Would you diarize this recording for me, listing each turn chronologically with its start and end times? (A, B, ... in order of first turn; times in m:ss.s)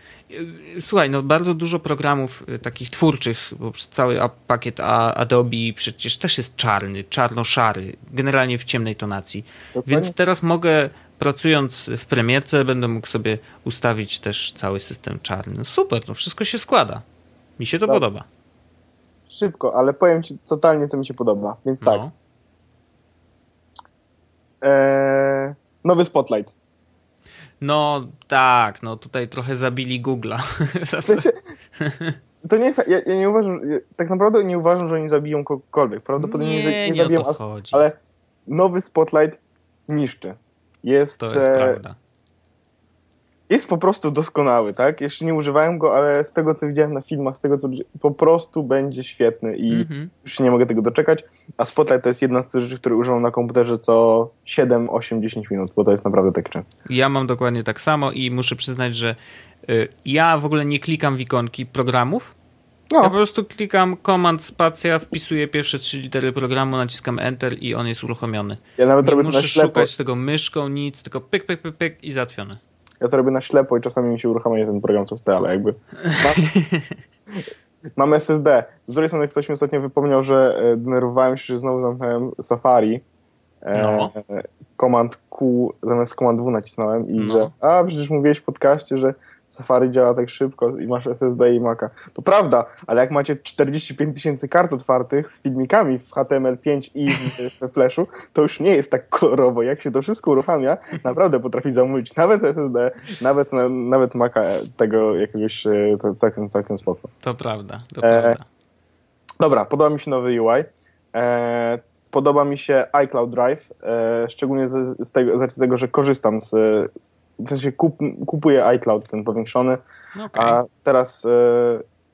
0:00.3-0:17.0 A
0:09.8-0:10.1 B
0:17.6-0:18.3 A
0:19.3-0:22.0 B
0:21.8-0:22.1 A
0:24.6-0:26.5 B
0:27.6-0:32.2 A
0:31.0-0:31.4 B
0:32.4-0:41.8 B
0:36.2-0:37.9 A
0:41.2-0:42.0 A
0:43.5-0:56.7 B
0:49.7-0:50.1 A
0:56.9-1:02.4 A
1:03.0-1:12.6 A
1:08.8-1:09.9 B
1:13.0-1:16.5 B
1:16.0-1:17.0 A
1:18.0-1:23.0 B
1:23.6-1:47.1 B
1:23.7-1:24.1 A
1:27.2-1:27.5 A
1:47.2-1:48.4 A
1:48.0-1:48.4 B
1:49.4-1:59.8 B
2:00.2-2:00.6 A
2:00.4-2:01.8 B